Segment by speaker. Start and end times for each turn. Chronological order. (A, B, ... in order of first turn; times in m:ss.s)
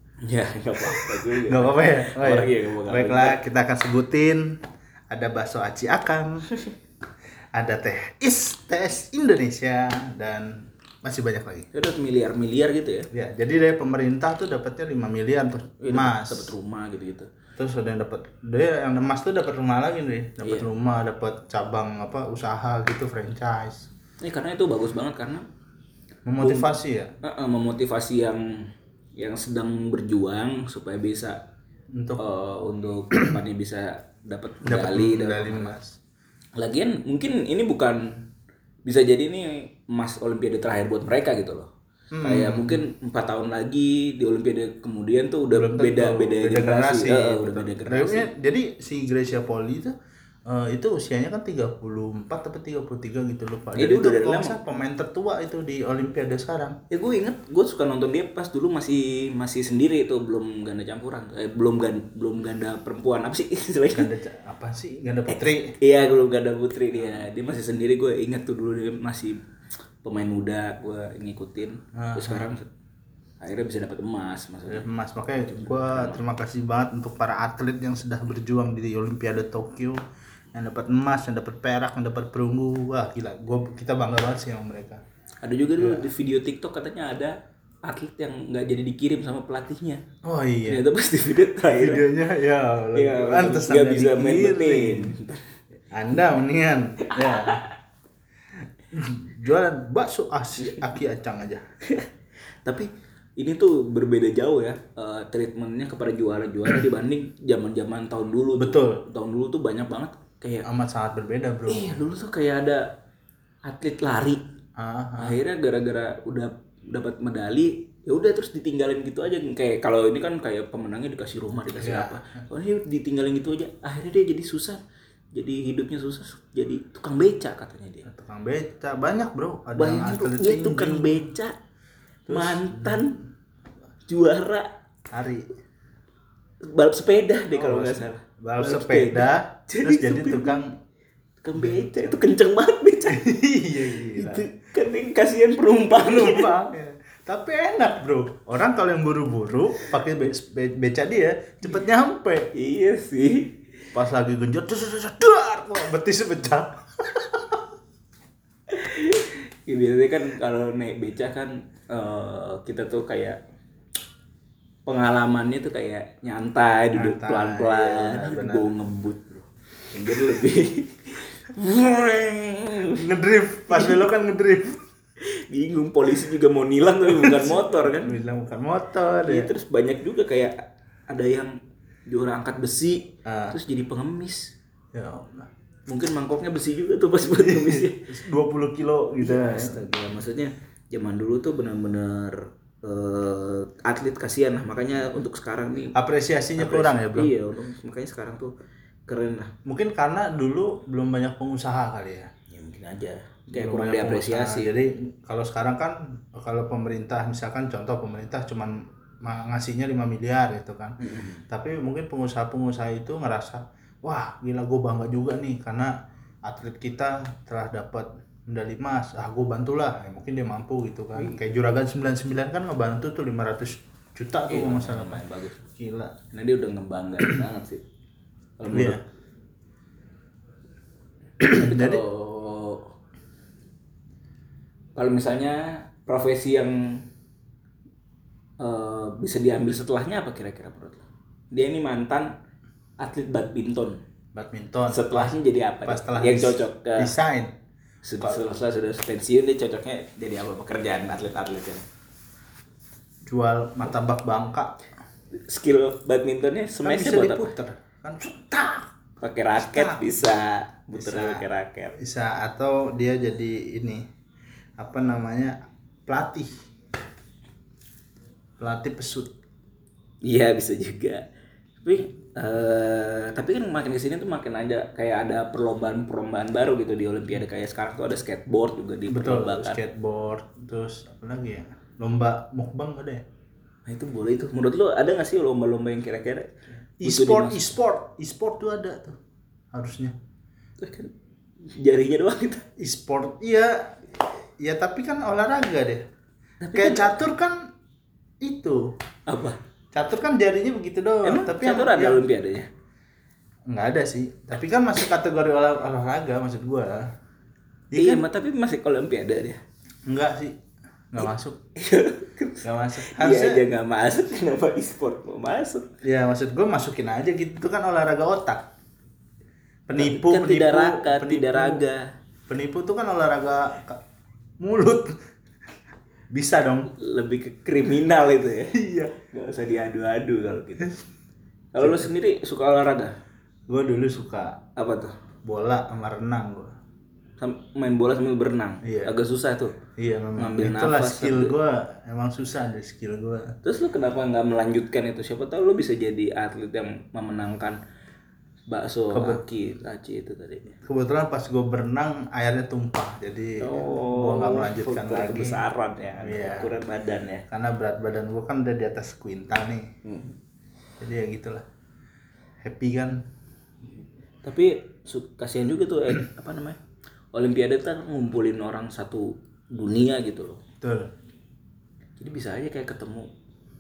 0:00.2-0:03.4 A
0:00.8-0:04.6 B
0:05.1-0:06.5 B
0:07.5-0:11.7 B
0:11.7-0:13.1 A
0:13.1-0:16.5 B
0:15.8-0:17.3 A
0:17.6-0:23.9 B
0:20.4-0:20.7 A
0:24.2-0:25.4 A
0:26.3-0:27.1 B
0:26.4-0:31.4 A
0:31.9-0:32.2 B
0:32.2-0:35.8 A
0:34.6-0:36.0 B
0:36.6-0:38.3 A
0:38.8-0:41.7 A
0:42.1-0:42.8 B
0:42.2-0:48.3 A
0:45.5-0:50.0 B
0:50.5-0:56.8 B
0:53.8-0:54.6 A
0:56.9-1:04.1 A
1:03.9-1:05.8 B
1:05.3-1:09.4 A
1:07.0-1:07.3 B
1:10.0-1:12.7 A
1:12.0-1:12.5 B
1:13.4-1:14.9 A
1:14.7-1:20.0 B
1:15.4-1:16.2 A
1:20.5-1:25.0 B
1:25.4-1:30.0 A
1:25.8-1:26.1 B
1:30.2-1:30.8 B
1:30.7-1:32.1 A
1:31.6-1:35.2 B
1:32.9-1:35.5 A
1:35.9-1:37.6 B
1:37.0-1:37.8 A
1:38.9-1:41.6 B
1:42.6-1:50.7 A
1:48.6-1:49.0 B
1:50.6-1:52.1 B
1:51.7-1:52.9 A
1:53.7-1:54.4 A
1:54.8-1:55.4 B
1:55.2-2:04.8 A
2:01.8-2:02.4 B
2:05.3-2:08.1 A
2:08.1-2:11.3 B
2:09.8-2:11.6 A
2:12.3-2:13.2 A
2:12.3-2:13.1 B
2:14.1-2:14.7 A
2:15.1-2:15.5 B
2:16.6-2:20.6 A
2:17.5-2:20.7 B
2:21.4-2:23.3 A
2:21.6-2:22.2 B
2:23.1-2:24.5 B
2:23.9-2:26.5 A
2:25.9-2:32.5 B
2:32.5-2:33.6 A
2:33.9-2:37.6 B
2:38.7-2:43.4 A
2:44.9-2:53.0 A
2:46.9-2:48.7 B
2:52.9-2:54.8 B
2:53.7-2:54.0 A
2:55.2-2:58.2 A
2:57.0-2:59.5 B
2:59.2-3:01.6 A
3:02.1-3:04.5 A
3:03.2-3:03.6 B
3:04.9-3:05.5 B
3:05.9-3:08.1 A
3:07.4-3:09.9 B
3:09.2-3:16.0 A
3:16.0-3:17.3 B
3:16.6-3:18.5 A
3:19.1-3:19.5 A
3:19.6-3:22.3 B
3:22.5-3:24.7 A
3:23.5-3:46.1 B
3:31.0-3:31.4 A
3:44.5-3:45.6 A
3:46.3-3:47.8 A
3:48.6-3:49.0 A
3:48.7-3:49.0 B
3:51.4-3:52.0 B
3:51.5-3:52.9 A
3:55.0-3:57.0 A
3:58.6-4:02.3 A
4:03.0-4:04.0 A
4:04.3-4:07.5 B
4:04.9-4:07.1 A
4:08.0-4:11.9 A
4:13.3-4:14.8 B
4:15.4-4:17.6 A
4:16.8-4:18.9 B
4:19.2-4:22.0 A
4:19.6-4:20.0 B
4:21.0-4:24.0 B
4:24.8-4:26.5 B
4:28.6-4:29.3 B
4:30.2-4:31.2 A
4:31.8-4:39.8 A
4:39.1-4:43.2 B
4:43.9-4:47.7 A
4:47.0-4:49.2 B
4:49.7-4:50.2 B
4:50.8-4:52.7 A
4:52.8-4:54.0 B
4:54.6-4:56.0 B
4:56.6-4:57.2 A
4:56.8-4:57.7 B
4:58.4-4:58.8 B
4:59.3-4:59.6 A
4:59.9-5:02.2 B
5:01.2-5:02.7 A
5:03.7-5:07.0 B
5:07.9-5:08.3 B
5:07.9-5:09.6 A
5:10.1-5:10.6 B
5:11.1-5:11.6 B
5:11.8-5:15.9 A
5:12.6-5:13.6 B
5:16.0-5:18.7 B
5:19.9-5:21.8 B
5:20.0-5:22.1 A
5:22.5-5:24.0 B
5:24.6-5:25.2 B
5:26.3-5:26.9 B
5:26.9-5:31.0 A
5:28.7-5:29.2 B
5:31.7-5:33.2 A
5:31.8-5:32.1 B
5:33.7-5:34.6 B
5:34.8-5:35.1 A
5:35.4-5:36.7 B
5:37.4-5:39.8 A
5:38.8-5:39.1 B
5:40.0-5:43.6 B
5:40.4-5:41.6 A
5:43.6-5:47.8 A
5:48.7-5:50.8 A
5:49.1-5:49.4 B
5:50.8-5:55.6 B
5:53.6-5:57.4 A
5:56.2-5:56.7 B
5:57.5-5:59.9 B
6:00.0-6:00.4 A
6:01.0-6:01.6 B
6:02.6-6:03.2 B
6:04.4-6:06.8 A
6:07.3-6:10.6 A
6:10.8-6:11.1 B
6:12.2-6:13.3 A